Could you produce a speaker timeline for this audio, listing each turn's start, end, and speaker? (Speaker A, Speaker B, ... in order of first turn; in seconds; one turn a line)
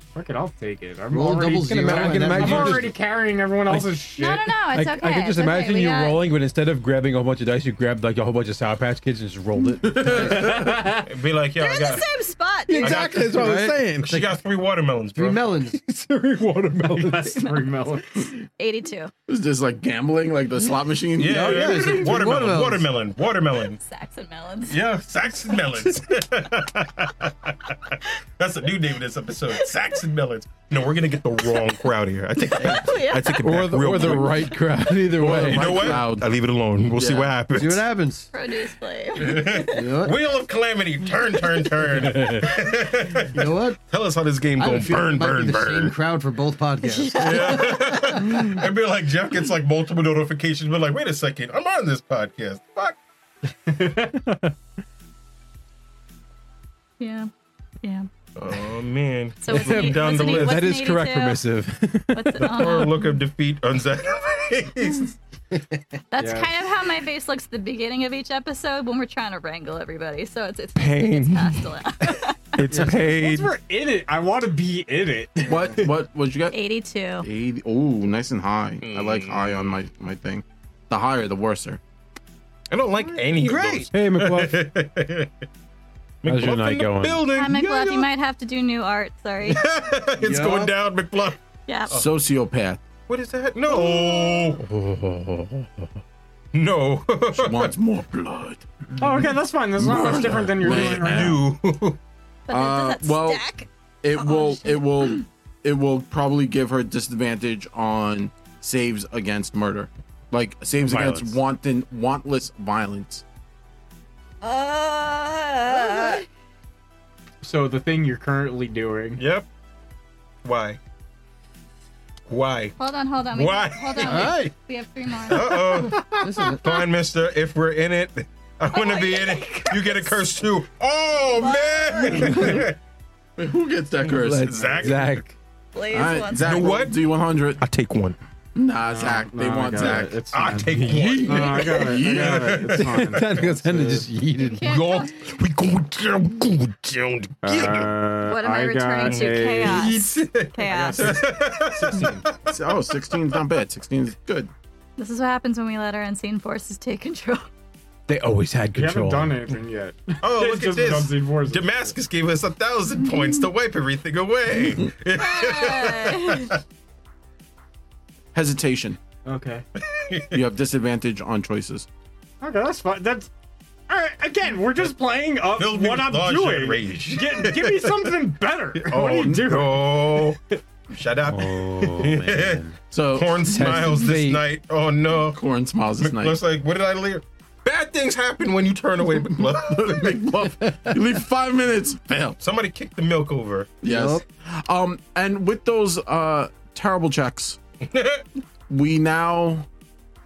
Speaker A: 0.1-4.5
Speaker B: 1.1-2.9
Speaker C: 1.7-3.0
Speaker C: 3.7-4.0
Speaker D: 4.2-6.3
Speaker C: 4.7-10.6
Speaker E: 9.9-10.5
Speaker A: 10.1-11.1
Speaker F: 11.0-12.1
Speaker D: 11.6-13.1
Speaker C: 12.7-14.2
Speaker F: 12.8-15.4
Speaker B: 13.2-14.3
Speaker B: 15.2-15.8
Speaker C: 15.7-17.5
Speaker A: 16.8-18.2
Speaker D: 17.4-19.1
Speaker E: 19.3-21.9
Speaker F: 21.2-23.8
Speaker B: 21.3-22.9
Speaker D: 23.8-24.8
Speaker F: 24.7-34.6
Speaker D: 32.5-33.5
Speaker C: 33.4-36.0
Speaker E: 35.2-36.3
Speaker F: 35.2-37.8
Speaker E: 37.0-37.3
Speaker B: 37.5-38.3
Speaker D: 38.3-40.0
Speaker F: 39.1-46.0
Speaker B: 39.7-40.1
Speaker D: 41.4-41.7
Speaker C: 42.1-42.5
Speaker B: 43.3-43.8
Speaker B: 44.6-47.7
Speaker D: 46.9-48.5
Speaker F: 47.2-53.0
Speaker A: 53.5-54.5
Speaker D: 57.0-57.3
Speaker D: 57.8-58.1
Speaker F: 58.4-60.8
Speaker D: 59.4-61.5
Speaker C: 59.5-62.7
Speaker D: 62.1-63.1
Speaker F: 62.4-65.2
Speaker D: 66.1-72.6
Speaker A: 66.2-66.6
Speaker F: 70.8-71.7
Speaker F: 72.6-73.5
Speaker A: 72.7-76.0
Speaker E: 75.5-76.6
Speaker D: 76.5-77.3
Speaker E: 77.2-81.8
Speaker F: 78.8-79.8
Speaker F: 82.7-85.3
Speaker A: 83.0-83.6
Speaker B: 83.4-83.8
Speaker C: 83.9-84.6
Speaker F: 86.2-88.1
Speaker C: 86.3-87.2
Speaker D: 87.3-89.7
Speaker F: 89.5-91.4
Speaker B: 90.2-90.7
Speaker D: 91.7-92.0
Speaker E: 91.9-92.8
Speaker F: 93.1-94.7
Speaker D: 93.7-94.6
Speaker C: 94.6-95.9
Speaker F: 96.5-97.7
Speaker E: 97.3-98.6
Speaker A: 99.0-101.5
Speaker E: 99.8-101.4
Speaker F: 100.6-102.0
Speaker D: 102.5-105.2
Speaker E: 102.5-103.5
Speaker E: 104.0-113.2
Speaker C: 110.8-111.4
Speaker D: 114.4-116.3
Speaker A: 117.4-119.2
Speaker F: 119.2-119.5
Speaker F: 120.4-120.8
Speaker F: 122.3-122.8
Speaker D: 122.8-125.8
Speaker F: 123.3-124.5
Speaker B: 124.0-124.5
Speaker F: 125.3-132.8
Speaker B: 126.2-126.6
Speaker D: 128.7-130.2
Speaker D: 131.4-132.6
Speaker E: 133.4-135.0
Speaker C: 134.2-135.4
Speaker F: 134.3-135.2
Speaker D: 135.7-136.8
Speaker E: 135.9-137.6
Speaker F: 136.4-136.9
Speaker F: 137.6-138.2
Speaker E: 138.6-140.2
Speaker A: 138.8-144.1
Speaker F: 139.8-143.3
Speaker C: 140.6-141.6
Speaker E: 141.6-142.6
Speaker C: 142.7-144.7
Speaker D: 144.4-145.1
Speaker F: 144.6-147.9
Speaker A: 147.4-150.0
Speaker D: 148.2-151.2
Speaker F: 149.0-153.4
Speaker A: 150.6-152.3
Speaker E: 152.5-154.5
Speaker D: 155.0-157.5
Speaker C: 158.1-159.4
Speaker A: 158.7-162.0
Speaker F: 160.2-166.6
Speaker D: 165.2-166.6
Speaker E: 168.3-169.0
Speaker A: 169.2-169.7
Speaker F: 169.8-170.4
Speaker E: 170.3-171.9
Speaker A: 172.4-173.3
Speaker A: 173.9-180.4
Speaker F: 175.5-178.1
Speaker F: 178.8-180.4
Speaker F: 180.9-185.4
Speaker C: 181.3-182.8
Speaker E: 182.9-183.5
Speaker C: 183.4-184.4
Speaker E: 185.3-186.4
Speaker F: 186.0-190.3
Speaker E: 189.6-192.4
Speaker F: 192.4-193.8
Speaker E: 193.8-197.6
Speaker B: 193.9-194.2
Speaker F: 197.8-198.2
Speaker E: 198.7-199.7